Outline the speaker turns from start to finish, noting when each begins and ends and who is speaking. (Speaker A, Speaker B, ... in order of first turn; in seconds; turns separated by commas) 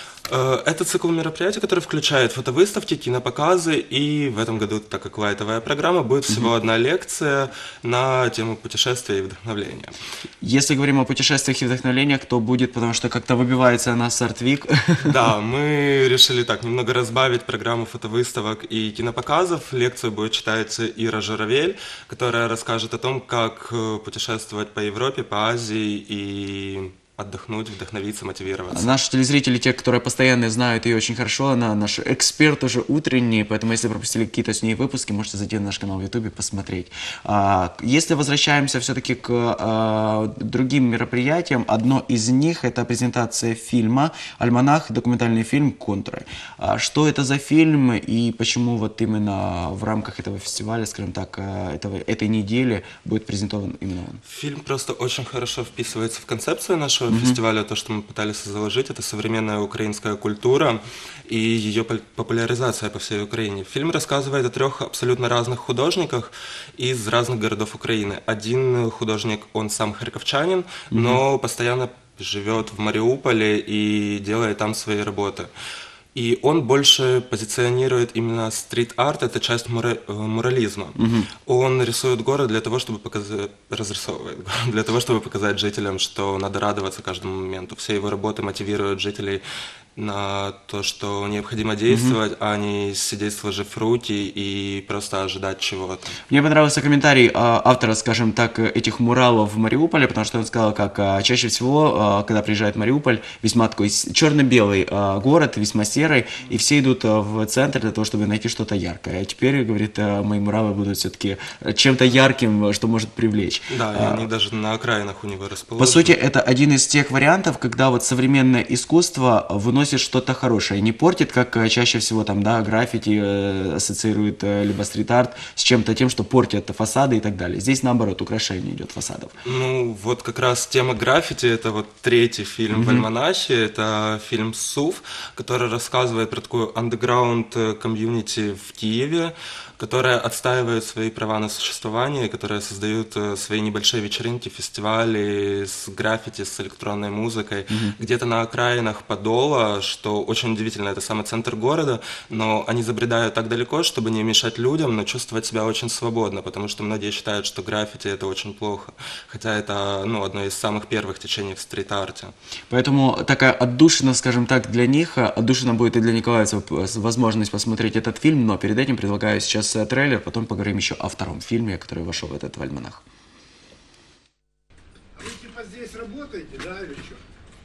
Speaker A: 0.2-9.9, Speaker B: 10.4-15.2, Speaker A: 15.0-28.9, Speaker B: 28.7-54.2, Speaker A: 54.2-75.5, Speaker B: 57.1-57.4, Speaker B: 70.9-71.2, Speaker A: 76.1-89.4, Speaker B: 81.0-81.3, Speaker A: 89.9-96.2, Speaker B: 91.9-92.2, Speaker B: 96.3-114.3, Speaker A: 113.7-116.2, Speaker B: 115.8-129.3, Speaker A: 129.4-162.3, Speaker B: 132.7-133.1, Speaker B: 147.7-147.9, Speaker B: 162.7-173.0, Speaker C: 175.2-177.2